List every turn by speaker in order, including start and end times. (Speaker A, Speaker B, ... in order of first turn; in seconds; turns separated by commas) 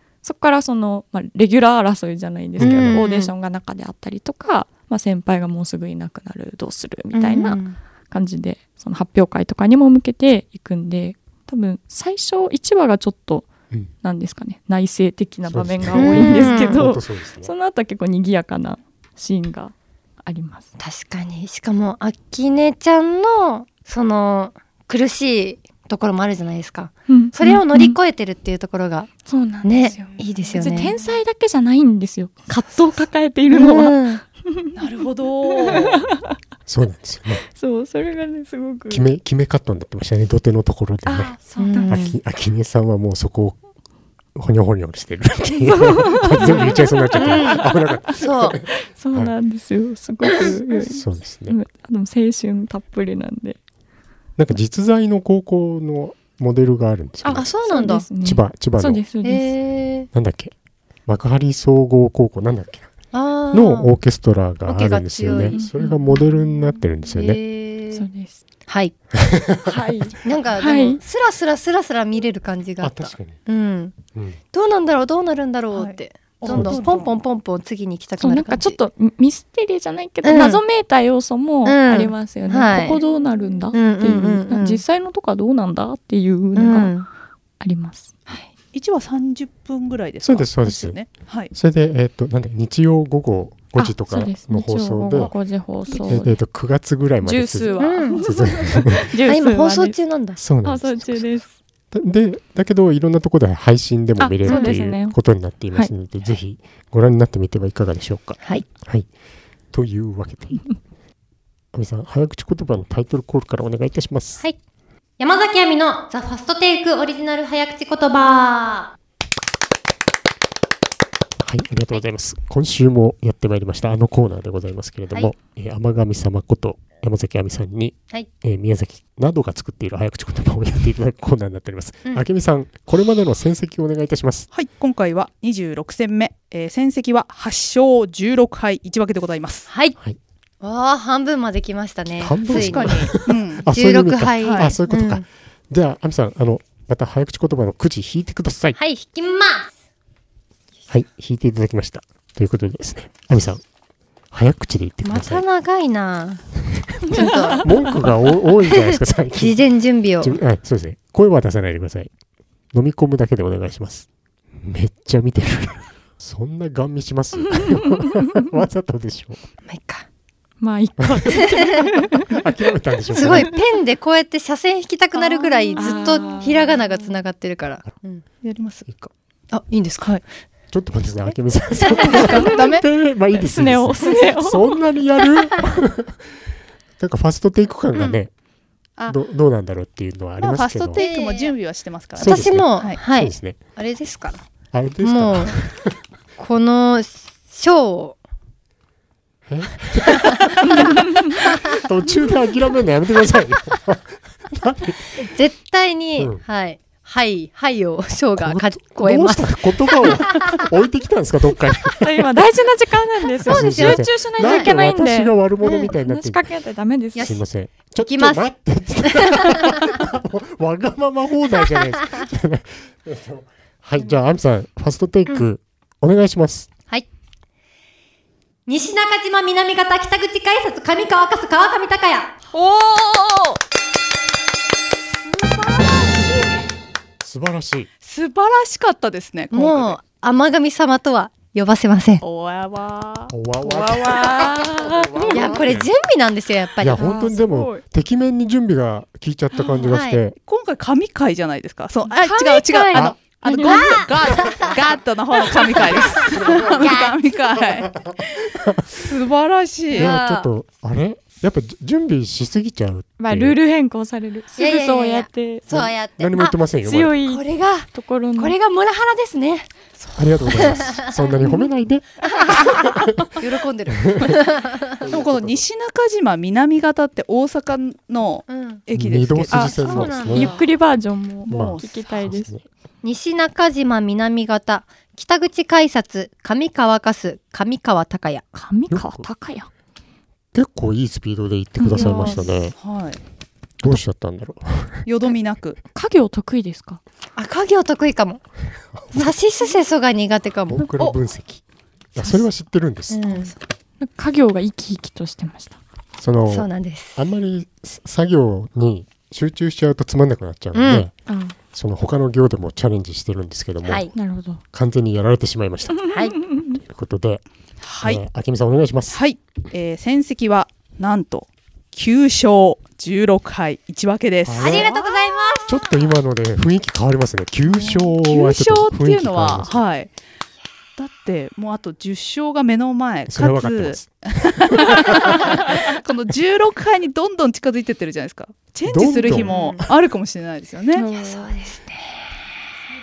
Speaker A: 0.2-13.5, Speaker B: 2.6-3.0, Speaker C: 2.6-3.3, Speaker C: 7.1-7.8, Speaker A: 14.0-20.7, Speaker B: 15.4-17.5, Speaker C: 15.9-16.8, Speaker C: 20.8-29.1, Speaker A: 27.1-28.0, Speaker A: 29.3-34.7, Speaker C: 29.6-30.9, Speaker D: 29.9-31.1, Speaker C: 33.5-34.2, Speaker D: 34.8-36.1, Speaker A: 35.5-36.0, Speaker B: 36.7-37.5, Speaker A: 37.5-39.1, Speaker B: 38.9-43.6, Speaker A: 41.1-42.1, Speaker C: 41.6-42.1, Speaker B: 44.4-49.4, Speaker A: 45.5-47.7, Speaker D: 46.4-46.8, Speaker C: 47.2-47.6, Speaker C: 48.2-48.6, Speaker A: 48.7-53.6, Speaker B: 50.8-51.6, Speaker B: 54.4-57.5, Speaker A: 57.2-59.5, Speaker C: 57.3-58.1, Speaker B: 58.2-59.0, Speaker C: 59.2-60.1, Speaker B: 60.1-60.5, Speaker B: 61.1-62.9, Speaker C: 63.1-63.9, Speaker B: 63.5-67.4, Speaker C: 64.6-65.7, Speaker A: 65.3-66.6, Speaker C: 67.1-68.0, Speaker A: 67.9-68.4, Speaker C: 68.7-69.0, Speaker B: 69.1-69.8, Speaker A: 69.6-71.0, Speaker C: 70.2-74.0, Speaker B: 72.8-73.5, Speaker B: 74.1-74.4, Speaker C: 74.5-78.8, Speaker D: 75.7-77.2, Speaker B: 76.5-76.8, Speaker A: 78.2-87.0, Speaker C: 80.2-80.6, Speaker C: 81.6-83.0, Speaker D: 83.0-83.4, Speaker C: 83.7-84.8, Speaker C: 86.5-87.1, Speaker A: 87.6-88.1, Speaker D: 88.7-91.5, Speaker B: 90.2-95.3, Speaker A: 93.8-96.4, Speaker B: 96.1-99.1, Speaker A: 97.2-100.0, Speaker C: 97.8-98.3, Speaker C: 99.1-100.4, Speaker B: 100.4-101.2, Speaker A: 100.6-101.5, Speaker B: 101.9-109.1, Speaker A: 104.2-105.2, Speaker C: 104.5-104.8, Speaker B: 109.7-110.8, Speaker B: 111.7-114.4, Speaker C: 115.2-118.9, Speaker B: 121.4-134.5, Speaker D: 134.5-139.7, Speaker C: 139.7-140.0, Speaker C: 140.6-145.2, Speaker B: 142.2-148.8, Speaker D: 142.4-143.7, Speaker D: 144.4-144.8, Speaker C: 148.8-149.7, Speaker B: 150.9-153.6, Speaker B: 154.3-155.4, Speaker C: 155.0-156.4, Speaker B: 157.0-162.1, Speaker C: 157.1-157.8, Speaker A: 157.2-158.0, Speaker C: 158.7-160.4, Speaker B: 162.7-164.1, Speaker B: 164.6-169.4, Speaker A: 167.7-168.4, Speaker C: 169.7-170.0, Speaker A: 170.6-172.4, Speaker B: 171.0-171.5, Speaker B: 172.2-173.5, Speaker C: 173.1-178.2, Speaker A: 175.1-177.1, Speaker D: 178.4-178.9, Speaker C: 179.5-180.2, Speaker B: 180.7-186.2, Speaker C: 181.3-182.5, Speaker D: 182.0-182.9, Speaker A: 182.1-182.6, Speaker A: 183.3-184.8, Speaker B: 187.0-188.3, Speaker B: 189.1-191.0, Speaker D: 190.4-193.0, Speaker C: 190.9-191.6, Speaker B: 192.2-193.6, Speaker C: 192.2-194.4, Speaker B: 194.7-195.9, Speaker C: 195.0-195.6, Speaker C: 196.4-198.2, Speaker B: 199.5-205.2, Speaker C: 205.1-210.6, Speaker B: 206.2-206.4, Speaker B: 208.4-212.2, Speaker A: 212.0-217.4, Speaker B: 213.4-216.5, Speaker C: 213.4-214.7, Speaker C: 215.6-216.0, Speaker B: 217.1-226.7, Speaker C: 217.1-217.4, Speaker C: 218.1-220.0, Speaker C: 228.7-232.4, Speaker A: 232.5-233.6, Speaker D: 232.6-233.1, Speaker C: 235.6-236.0, Speaker B: 237.2-237.9, Speaker D: 238.0-240.0, Speaker C: 239.5-242.2, Speaker D: 242.2-244.6, Speaker B: 243.3-245.9, Speaker A: 243.7-245.4, Speaker C: 245.2-247.1, Speaker B: 246.8-250.4, Speaker A: 247.0-247.8, Speaker A: 249.5-249.9, Speaker C: 249.8-250.2, Speaker D: 250.4-258.2, Speaker A: 252.2-252.6, Speaker C: 252.4-254.8, Speaker A: 253.4-254.1, Speaker C: 255.4-257.1, Speaker B: 258.6-258.8, Speaker D: 258.9-260.1, Speaker C: 259.9-260.5, Speaker B: 260.0-263.6, Speaker A: 263.2-265.7, Speaker C: 264.6-266.6, Speaker B: 265.7-267.2, Speaker A: 266.8-268.6, Speaker C: 267.2-271.6, Speaker B: 270.2-272.9, Speaker C: 272.3-275.0, Speaker B: 273.9-275.6, Speaker D: 275.1-280.4, Speaker C: 278.5-278.9, Speaker B: 278.9-280.6, Speaker C: 279.5-280.7, Speaker A: 280.3-282.5, Speaker D: 281.5-281.9, Speaker B: 281.5-282.6, Speaker C: 283.0-288.4, Speaker A: 288.5-289.7, Speaker B: 288.9-289.3, Speaker B: 290.5-292.8, Speaker A: 291.8-292.4, Speaker C: 291.9-292.6, Speaker D: 292.8-293.2, Speaker B: 293.8-295.1, Speaker D: 295.1-295.8, Speaker A: 295.9-297.0, Speaker C: 297.4-298.4, Speaker B: 298.9-299.4, Speaker C: 299.1-300.9, Speaker B: 300.7-301.6, Speaker B: 302.1-303.4, Speaker C: 303.1-303.6, Speaker A: 304.0-305.8, Speaker B: 306.2-311.1, Speaker C: 306.5-307.2, Speaker C: 310.7-311.1, Speaker A: 311.3-311.6, Speaker B: 311.7-314.1, Speaker C: 313.8-314.1, Speaker A: 314.1-314.6, Speaker B: 314.7-317.4, Speaker A: 316.0-316.8, Speaker C: 316.1-316.4, Speaker D: 317.8-318.2, Speaker B: 318.0-319.2, Speaker D: 319.1-325.4, Speaker B: 324.4-324.9, Speaker C: 324.5-325.9, Speaker B: 325.7-329.8, Speaker D: 327.9-330.1, Speaker D: 331.0-341.1, Speaker B: 333.3-335.7, Speaker B: 338.9-339.9, Speaker C: 339.1-339.8, Speaker A: 340.9-341.8, Speaker C: 341.0-342.2